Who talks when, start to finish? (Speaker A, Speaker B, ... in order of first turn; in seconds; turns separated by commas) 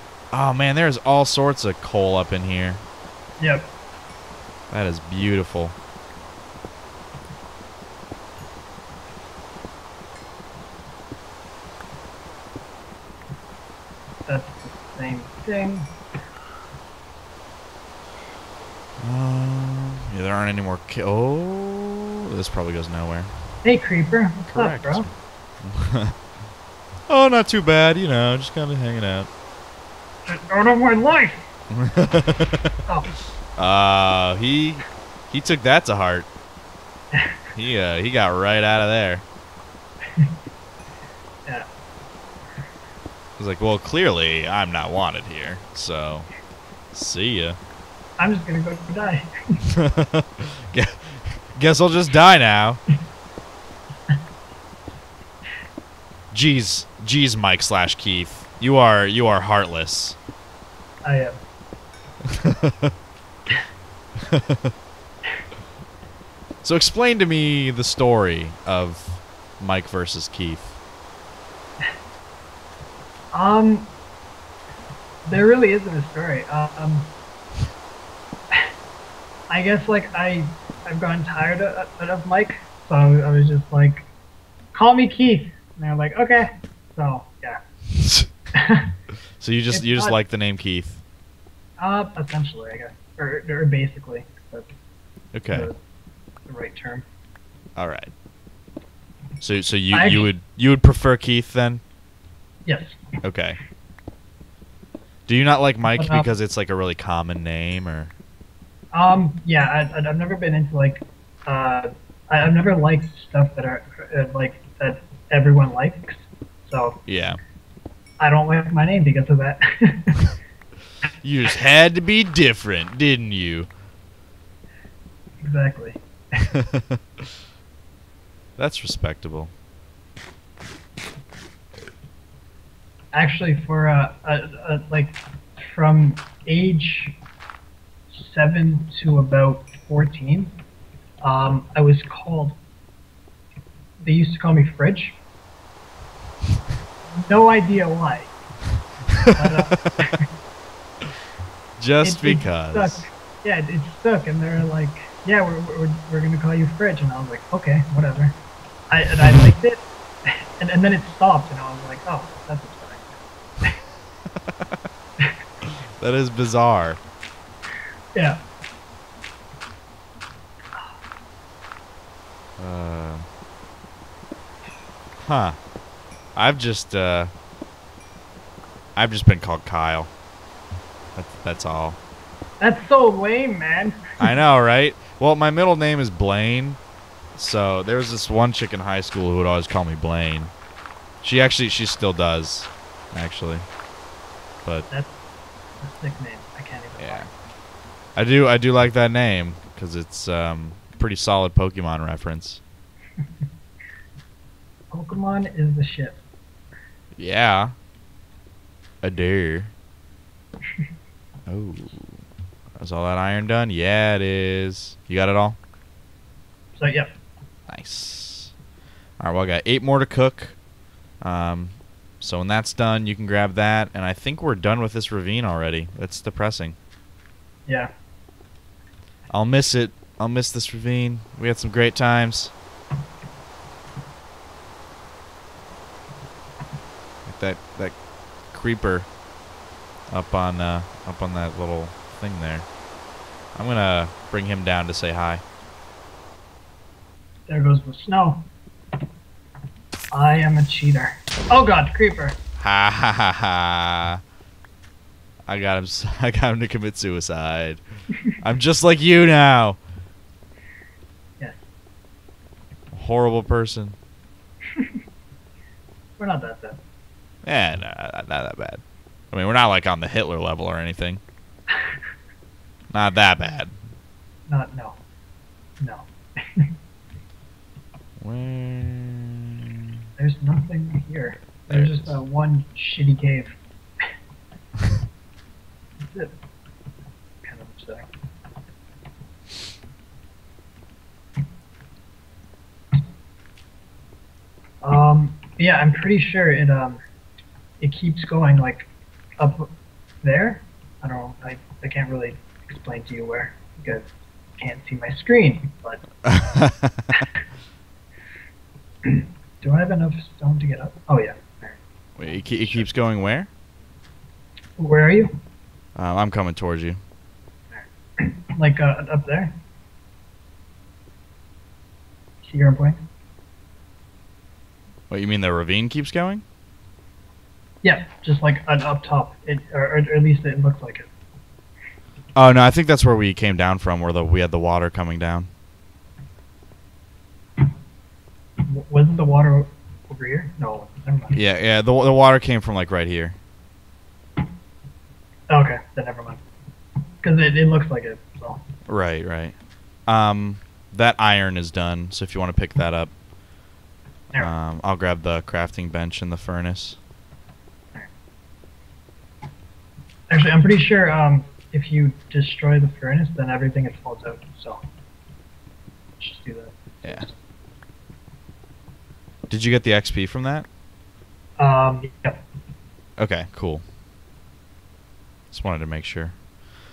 Speaker A: 0.3-2.8, Speaker B: 3.4-3.7, Speaker A: 4.7-5.8, Speaker B: 14.3-15.9, Speaker A: 19.0-23.3, Speaker B: 23.6-25.1, Speaker A: 24.5-26.1, Speaker A: 27.1-29.3, Speaker B: 30.2-31.4, Speaker A: 31.7-32.6, Speaker A: 33.5-36.3, Speaker B: 37.1-37.4, Speaker A: 37.5-39.2, Speaker A: 43.4-46.3, Speaker A: 46.9-47.6, Speaker B: 48.2-49.3, Speaker A: 49.8-52.8, Speaker A: 56.3-60.2, Speaker B: 61.0-61.4, Speaker A: 62.4-62.9, Speaker A: 64.3-64.7, Speaker A: 66.6-70.8, Speaker B: 73.3-73.9, Speaker B: 75.2-77.1, Speaker B: 79.5-84.1, Speaker B: 84.7-87.6, Speaker A: 88.0-88.3, Speaker B: 88.5-89.0, Speaker A: 89.4-91.0, Speaker B: 89.7-90.2, Speaker B: 91.8-94.7, Speaker A: 95.3-95.7, Speaker B: 95.5-95.8, Speaker B: 96.5-97.0, Speaker A: 97.8-98.1, Speaker A: 99.4-101.8, Speaker B: 99.9-100.3, Speaker B: 102.7-103.0, Speaker A: 103.2-103.6, Speaker A: 105.3-108.1, Speaker B: 105.9-106.3, Speaker B: 108.9-117.0, Speaker A: 117.1-117.4, Speaker B: 118.2-120.2, Speaker A: 121.2-123.7, Speaker B: 125.4-126.5, Speaker A: 126.6-127.0, Speaker A: 128.6-129.5, Speaker B: 133.1-137.2, Speaker B: 138.1-140.5, Speaker B: 141.2-142.6, Speaker B: 144.0-145.2, Speaker B: 147.1-148.3, Speaker B: 149.3-150.3, Speaker A: 151.8-153.1, Speaker B: 152.0-158.4, Speaker B: 158.9-163.8, Speaker A: 165.6-167.0, Speaker B: 168.1-168.4, Speaker A: 172.6-173.3, Speaker A: 175.2-175.6, Speaker A: 176.3-177.3, Speaker A: 179.0-180.1, Speaker A: 181.2-182.0, Speaker B: 182.6-184.0, Speaker A: 184.2-186.8, Speaker A: 187.3-190.5, Speaker A: 191.2-193.7, Speaker B: 194.9-195.2, Speaker B: 195.8-197.3, Speaker A: 197.0-197.3, Speaker A: 198.2-202.6, Speaker B: 204.9-206.2, Speaker A: 207.2-207.8, Speaker A: 209.0-209.7, Speaker A: 211.5-212.2, Speaker A: 212.8-215.6, Speaker B: 216.8-217.1, Speaker A: 217.7-218.5, Speaker A: 219.2-220.6, Speaker A: 221.2-226.8, Speaker A: 229.3-232.5, Speaker A: 237.2-239.1, Speaker A: 240.1-242.7, Speaker A: 243.5-245.4, Speaker B: 247.5-248.5, Speaker B: 250.1-252.4, Speaker A: 252.6-254.2, Speaker A: 255.5-257.8, Speaker A: 258.4-259.8, Speaker B: 261.4-261.6, Speaker A: 262.9-264.0, Speaker B: 266.2-266.8, Speaker A: 267.4-271.2, Speaker B: 271.7-272.0, Speaker A: 272.9-273.7, Speaker B: 274.5-275.0, Speaker B: 275.8-276.7, Speaker A: 278.2-279.5, Speaker B: 280.2-283.6, Speaker A: 281.7-282.2, Speaker B: 286.0-286.3, Speaker B: 287.4-288.1, Speaker B: 294.8-297.0, Speaker B: 297.8-298.9, Speaker B: 299.4-306.0, Speaker A: 306.2-307.2, Speaker B: 309.0-311.8, Speaker A: 312.2-313.5, Speaker B: 312.3-312.9, Speaker B: 314.8-315.3, Speaker A: 316.0-317.0, Speaker B: 317.7-319.5, Speaker B: 322.4-323.0, Speaker A: 325.1-326.4, Speaker B: 327.8-331.1, Speaker A: 332.4-335.5, Speaker B: 338.6-341.4, Speaker A: 341.3-343.4, Speaker B: 345.5-346.4, Speaker B: 347.2-348.6, Speaker A: 348.9-349.6, Speaker A: 350.1-353.1, Speaker A: 354.4-357.0, Speaker B: 360.3-364.8, Speaker B: 366.2-367.4, Speaker A: 369.5-370.7, Speaker B: 371.6-372.4, Speaker A: 373.2-373.8, Speaker A: 375.5-376.4